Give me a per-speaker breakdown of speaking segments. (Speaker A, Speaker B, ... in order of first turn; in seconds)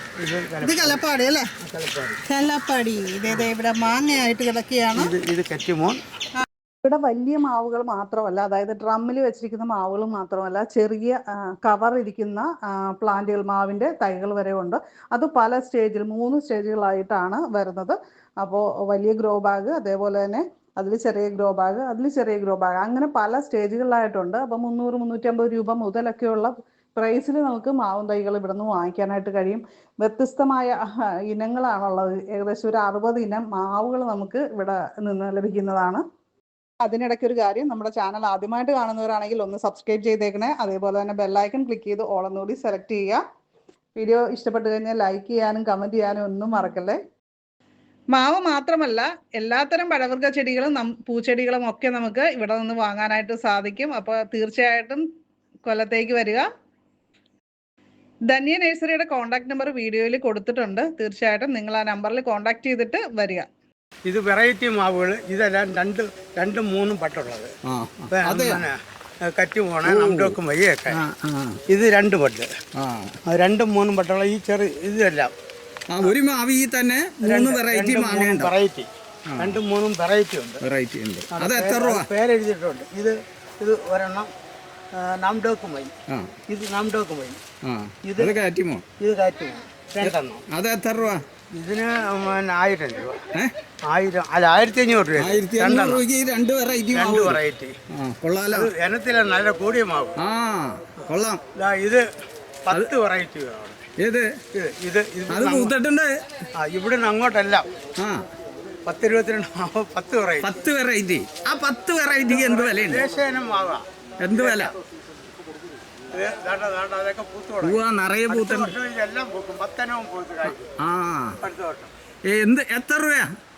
Speaker A: 0.2-1.0, 1.6-2.2, 4.9-6.0, 64.1-67.5, 68.1-71.0, 71.7-72.5, 73.3-75.3, 77.2-80.6, 81.3-84.3, 84.9-85.9, 86.5-87.4, 88.0-88.3, 89.0-90.4, 91.5-93.2, 93.9-96.0, 96.9-97.7, 98.5-100.1, 101.5-102.0, 102.6-103.8, 104.5-105.7, 106.6-107.6, 108.8-110.6, 112.3-114.7, 116.1-120.8, 121.3-121.9
Speaker B: 0.6-1.5, 2.3-5.1, 6.4-30.8, 31.3-36.0, 36.8-43.2, 44.0-47.0, 48.1-55.0, 55.6-56.4, 58.3-63.5
Speaker C: 67.7-68.6, 69.8-70.4, 70.9-71.6, 72.8-73.2, 75.9-78.5, 79.3-79.6, 80.6-82.1, 87.6-88.8, 90.0-91.2, 95.2-97.4, 97.9-98.7, 100.2-101.4, 104.0-104.3, 105.3-106.2, 108.0-108.2, 110.4-113.0, 114.2-114.7, 117.6-118.7, 120.8-121.4, 122.3-123.3